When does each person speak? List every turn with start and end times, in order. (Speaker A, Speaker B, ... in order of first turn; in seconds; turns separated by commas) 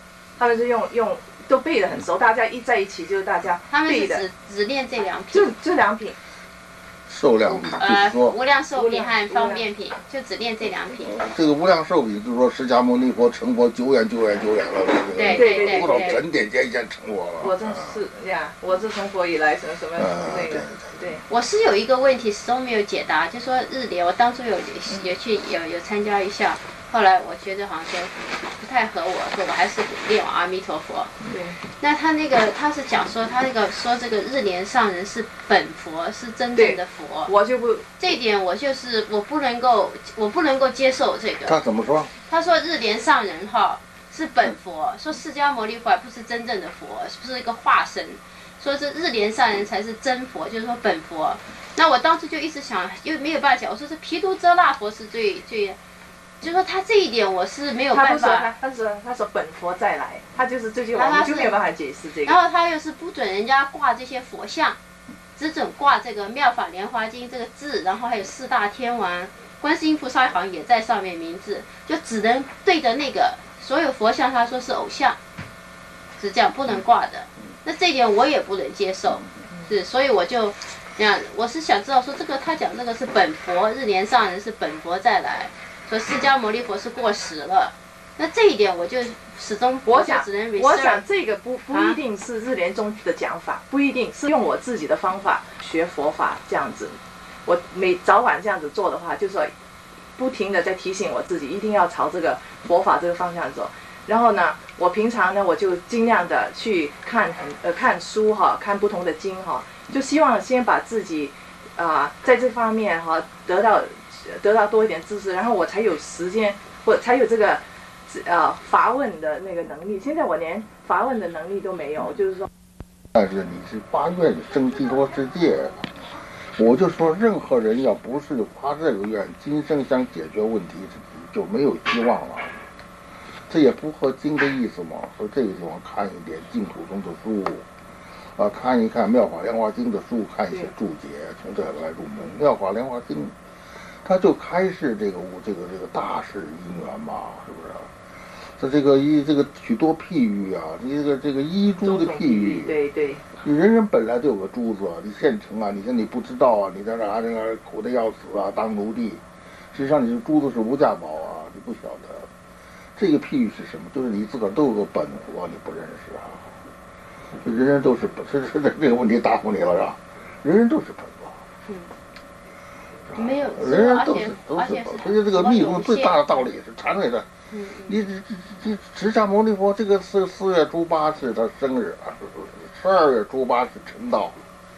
Speaker A: 0.4-4.2, Speaker B: 3.7-5.5, Speaker A: 5.3-6.2, Speaker C: 7.1-8.3, Speaker B: 7.5-11.2, Speaker A: 8.7-9.6, Speaker C: 11.0-18.0, Speaker B: 15.1-16.2, Speaker A: 15.3-16.2, Speaker A: 17.4-21.2, Speaker C: 19.9-21.2, Speaker B: 21.3-37.3, Speaker A: 31.3-31.6, Speaker A: 36.5-37.9, Speaker B: 38.0-41.5, Speaker C: 41.4-42.1, Speaker B: 42.3-55.8, Speaker B: 56.4-58.5, Speaker A: 57.9-62.4, Speaker B: 60.9-61.6, Speaker B: 62.2-64.8, Speaker B: 65.3-75.2, Speaker B: 76.2-91.0, Speaker A: 89.8-99.5, Speaker B: 91.7-92.0, Speaker A: 100.2-122.5, Speaker C: 123.1-125.9, Speaker C: 126.5-132.6, Speaker C: 133.5-137.7, Speaker C: 138.3-143.3, Speaker C: 144.0-147.9, Speaker C: 148.4-152.8, Speaker A: 151.8-153.2, Speaker C: 153.4-159.2, Speaker C: 159.7-162.3, Speaker C: 162.9-166.5, Speaker C: 167.4-171.4, Speaker B: 171.7-171.9, Speaker C: 173.1-177.3, Speaker B: 173.1-176.2, Speaker B: 177.5-178.0, Speaker C: 177.9-184.4